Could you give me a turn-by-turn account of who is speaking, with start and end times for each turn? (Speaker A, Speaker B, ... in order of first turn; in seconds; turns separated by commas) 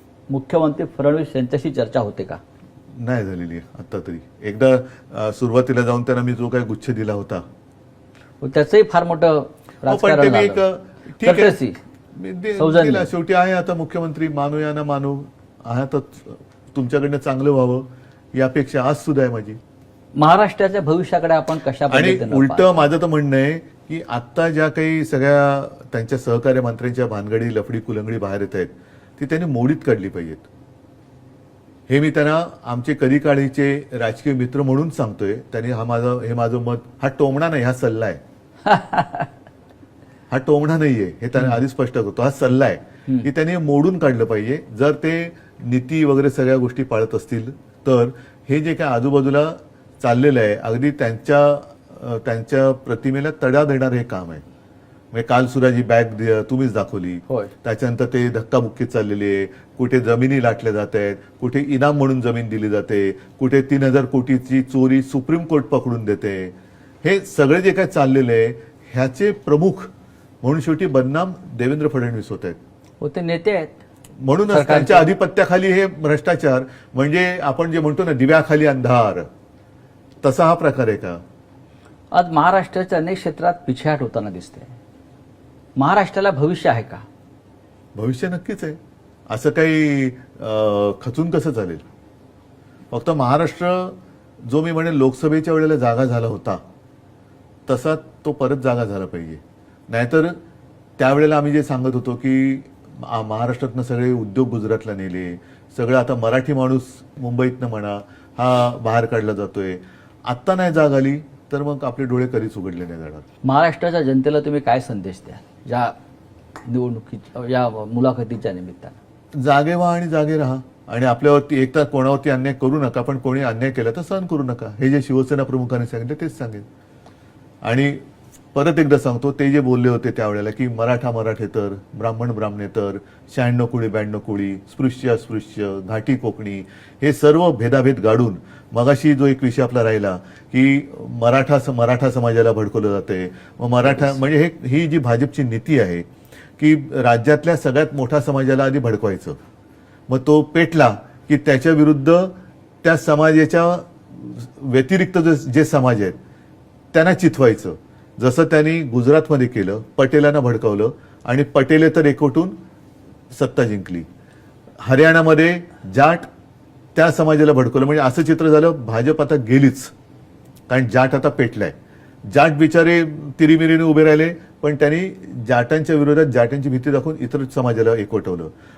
Speaker A: 0.3-2.4, Speaker B: 3.0-7.4, Speaker A: 8.4-10.6, Speaker B: 9.9-11.6, Speaker A: 11.2-11.8, Speaker B: 12.1-19.6, Speaker A: 12.6-13.1, Speaker A: 20.1-22.9, Speaker B: 21.9-30.5, Speaker B: 31.9-38.2, Speaker A: 38.6-39.3, Speaker B: 40.3-54.4, Speaker B: 55.1-69.9, Speaker B: 70.4-72.6, Speaker A: 73.0-73.8, Speaker B: 74.2-79.2, Speaker A: 74.5-75.1, Speaker B: 80.2-81.2, Speaker A: 82.1-84.8, Speaker A: 85.8-87.0, Speaker B: 87.9-88.8, Speaker B: 89.3-91.8, Speaker B: 92.9-94.0, Speaker B: 94.5-96.6, Speaker B: 97.7-100.3, Speaker B: 101.0-113.2, Speaker A: 113.4-115.9, Speaker A: 116.6-119.0, Speaker B: 119.4-126.6, Speaker B: 127.6-128.0, Speaker B: 128.5-146.0, Speaker B: 146.6-149.4, Speaker B: 150.1-156.2, Speaker B: 156.9-162.5, Speaker B: 163.3-164.1, Speaker B: 164.8-166.3, Speaker B: 166.9-169.9, Speaker B: 170.7-171.7, Speaker B: 172.3-178.5